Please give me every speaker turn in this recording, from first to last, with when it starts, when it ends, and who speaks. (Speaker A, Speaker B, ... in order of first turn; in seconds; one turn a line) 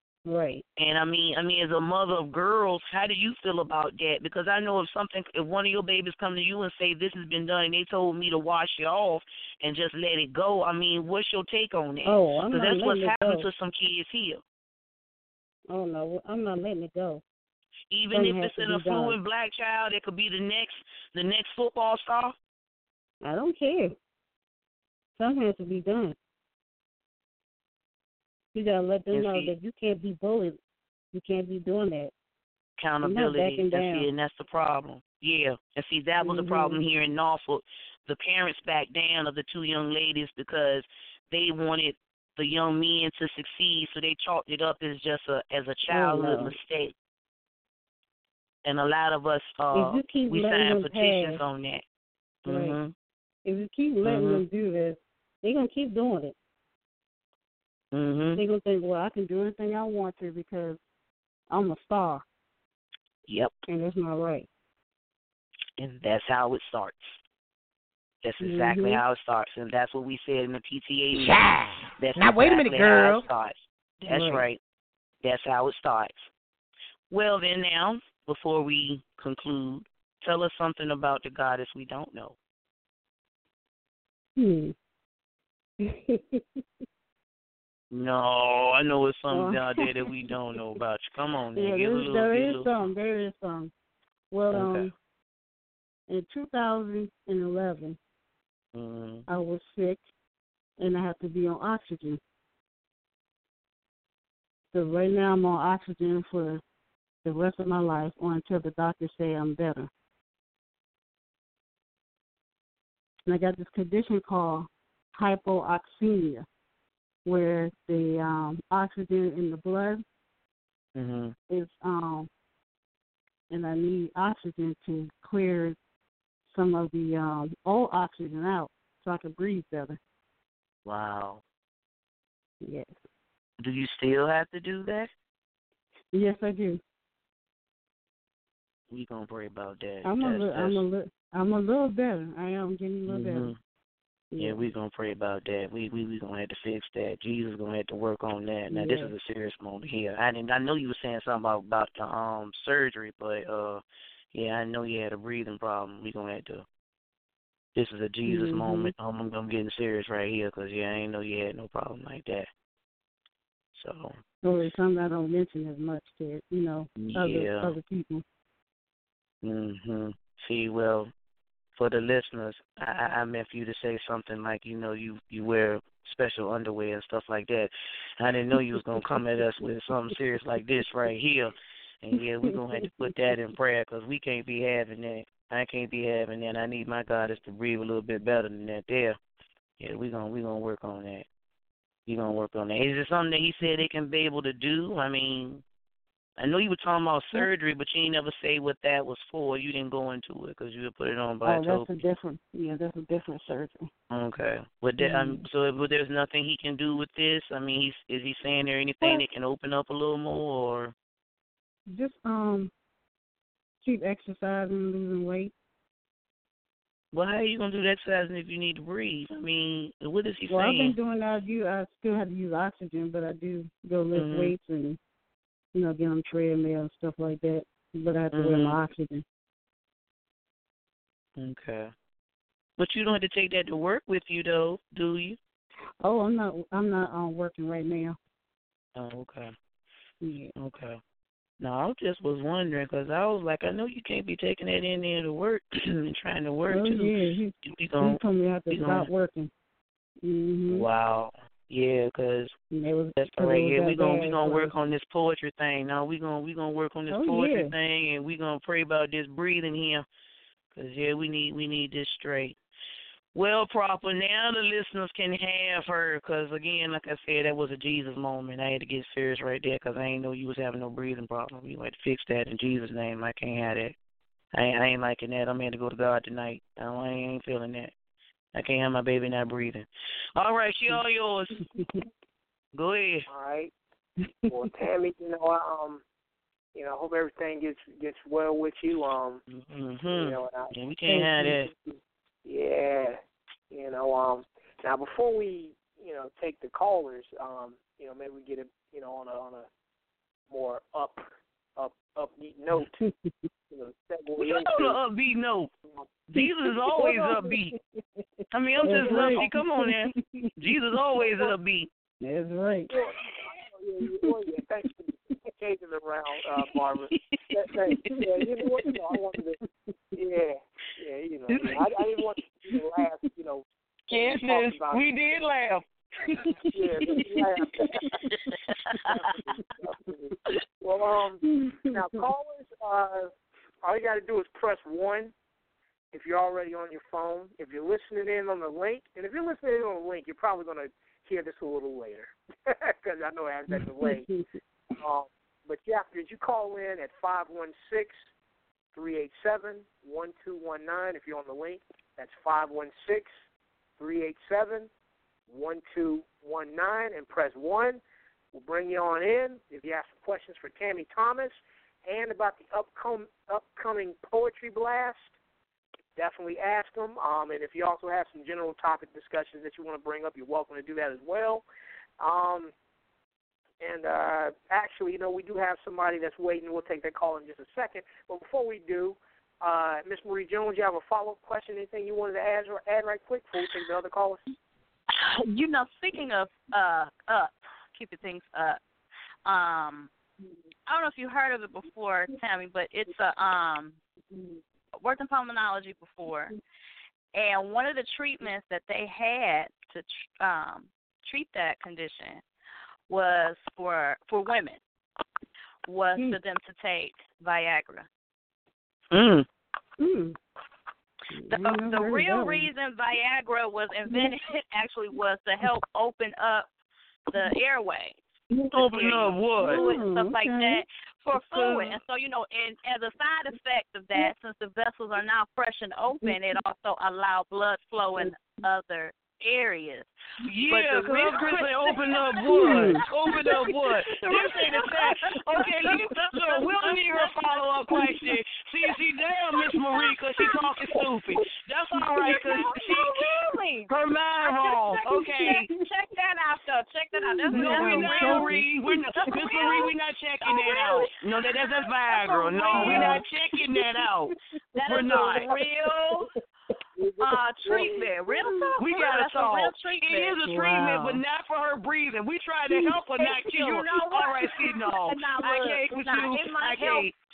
Speaker A: 0.3-0.6
Speaker B: 0.8-14.4
Speaker A: 12.0-13.4
Speaker A: 15.7-17.2
Speaker B: 17.9-22.4
Speaker A: 18.1-19.2
Speaker A: 23.2-23.9
Speaker A: 25.2-26.2
Speaker A: 28.6-30.6
Speaker B: 29.1-29.5
Speaker A: 31.1-32.1
Speaker B: 32.8-46.9
Speaker A: 33.0-34.1
Speaker A: 36.2-36.8
Speaker A: 45.9-46.5
Speaker B: 48.6-51.8
Speaker A: 49.7-51.4
Speaker B: 52.5-52.9
Speaker A: 52.5-52.8
Speaker A: 53.5-56.4
Speaker B: 54.0-54.4
Speaker B: 57.9-58.4
Speaker A: 58.3-60.8
Speaker A: 61.5-62.2
Speaker B: 63.3-63.5
Speaker A: 63.7-64.5
Speaker B: 65.8-67.2
Speaker B: 68.2-71.4
Speaker A: 68.4-69.0
Speaker C: 71.2-73.2
Speaker B: 72.0-74.6
Speaker A: 74.1-74.4
Speaker B: 75.2-76.3
Speaker B: 77.1-82.4
Speaker A: 84.4-84.7
Speaker A: 85.8-86.4
Speaker B: 87.9-92.9
Speaker A: 89.3-89.9
Speaker A: 91.5-93.7
Speaker A: 94.3-94.9
Speaker B: 94.5-94.9
Speaker A: 96.1-98.0
Speaker B: 98.7-99.3
Speaker A: 99.3-100.0
Speaker A: 100.8-102.2
Speaker A: 104.7-106.6
Speaker A: 107.2-109.9
Speaker A: 113.3-116.5
Speaker A: 117.2-120.0
Speaker B: 121.0-121.3
Speaker A: 121.5-122.3
Speaker A: 123.5-125.8
Speaker A: 126.5-130.0
Speaker B: 130.8-131.4
Speaker A: 132.6-132.9
Speaker B: 133.6-135.1
Speaker A: 136.1-136.8
Speaker B: 138.9-140.8
Speaker A: 140.0-143.5
Speaker B: 143.1-143.6
Speaker A: 144.3-144.6
Speaker B: 144.4-156.7
Speaker A: 148.7-149.1
Speaker B: 157.7-162.5
Speaker A: 158.3-158.9
Speaker B: 163.7-164.2
Speaker A: 164.4-168.2
Speaker B: 167.0-167.8
Speaker B: 169.4-171.1
Speaker B: 171.8-189.2
Speaker B: 189.8-191.3
Speaker B: 192.1-195.6
Speaker B: 196.4-201.9
Speaker A: 201.4-203.9
Speaker B: 204.1-210.9
Speaker A: 205.0-205.4
Speaker A: 211.9-212.7
Speaker A: 213.8-215.5
Speaker B: 217.1-221.0
Speaker A: 220.5-225.0
Speaker B: 224.1-224.6
Speaker A: 225.7-229.2
Speaker B: 228.3-228.8
Speaker B: 231.4-231.9
Speaker B: 232.8-235.4
Speaker A: 236.0-238.2
Speaker B: 238.9-239.6
Speaker A: 240.2-240.5
Speaker B: 240.6-241.0
Speaker B: 241.6-249.1
Speaker A: 246.7-249.5
Speaker A: 250.2-250.9
Speaker B: 250.7-252.6
Speaker A: 252.7-254.7
Speaker B: 253.2-260.1
Speaker A: 257.1-257.7
Speaker B: 260.7-262.6
Speaker B: 263.3-273.9
Speaker B: 274.5-277.9
Speaker B: 278.5-281.7
Speaker A: 281.7-282.0
Speaker B: 282.7-283.3
Speaker D: 283.3-283.7
Speaker D: 284.5-286.0
Speaker D: 286.7-289.4
Speaker B: 289.5-291.7
Speaker D: 290.1-290.7
Speaker A: 291.1-291.9
Speaker D: 292.4-293.2
Speaker D: 293.7-299.7
Speaker D: 300.5-303.0
Speaker A: 302.8-303.5
Speaker D: 303.7-305.0
Speaker B: 304.4-305.7
Speaker B: 306.3-307.8
Speaker A: 306.4-307.5
Speaker B: 308.5-311.9
Speaker A: 308.8-310.5
Speaker D: 308.9-309.5
Speaker D: 311.2-311.5
Speaker A: 312.2-312.9
Speaker D: 312.9-319.6
Speaker A: 317.9-318.2
Speaker D: 320.1-325.1
Speaker B: 321.5-322.2
Speaker B: 324.1-327.2
Speaker D: 326.7-328.1
Speaker B: 328.1-329.2
Speaker D: 329.1-333.3
Speaker A: 331.4-332.0
Speaker D: 333.8-335.3
Speaker D: 336.1-344.3
Speaker A: 343.7-344.5
Speaker D: 345.0-348.3
Speaker D: 348.9-353.3
Speaker D: 354.0-354.9
Speaker D: 355.5-358.0
Speaker D: 358.5-365.3
Speaker D: 366.2-371.7
Speaker D: 372.2-372.7
Speaker D: 373.8-384.5
Speaker E: 385.1-388.8
Speaker E: 389.4-390.1
Speaker E: 390.9-394.0
Speaker E: 394.9-396.6
Speaker E: 397.3-402.4
Speaker E: 403.1-404.8
Speaker E: 405.9-408.1
Speaker B: 409.1-409.5
Speaker A: 410.0-410.4
Speaker A: 411.3-412.7
Speaker E: 411.5-416.7
Speaker E: 417.3-418.2
Speaker E: 418.7-430.1
Speaker B: 418.7-419.9
Speaker A: 419.6-420.8
Speaker B: 430.4-443.3
Speaker E: 430.7-433.7
Speaker A: 432.5-433.0
Speaker E: 434.2-437.3
Speaker A: 434.2-434.8
Speaker E: 442.2-443.9
Speaker B: 443.9-445.7
Speaker E: 444.4-448.6
Speaker A: 445.4-445.6
Speaker A: 447.1-448.7
Speaker B: 447.5-455.6
Speaker E: 449.2-449.9
Speaker E: 450.4-451.1
Speaker E: 452.1-453.2
Speaker A: 452.7-453.2
Speaker E: 454.7-456.3
Speaker A: 455.2-455.5
Speaker D: 457.0-457.9
Speaker E: 457.2-460.4
Speaker B: 457.7-458.2
Speaker B: 458.8-467.1
Speaker A: 460.4-461.2
Speaker E: 463.2-467.1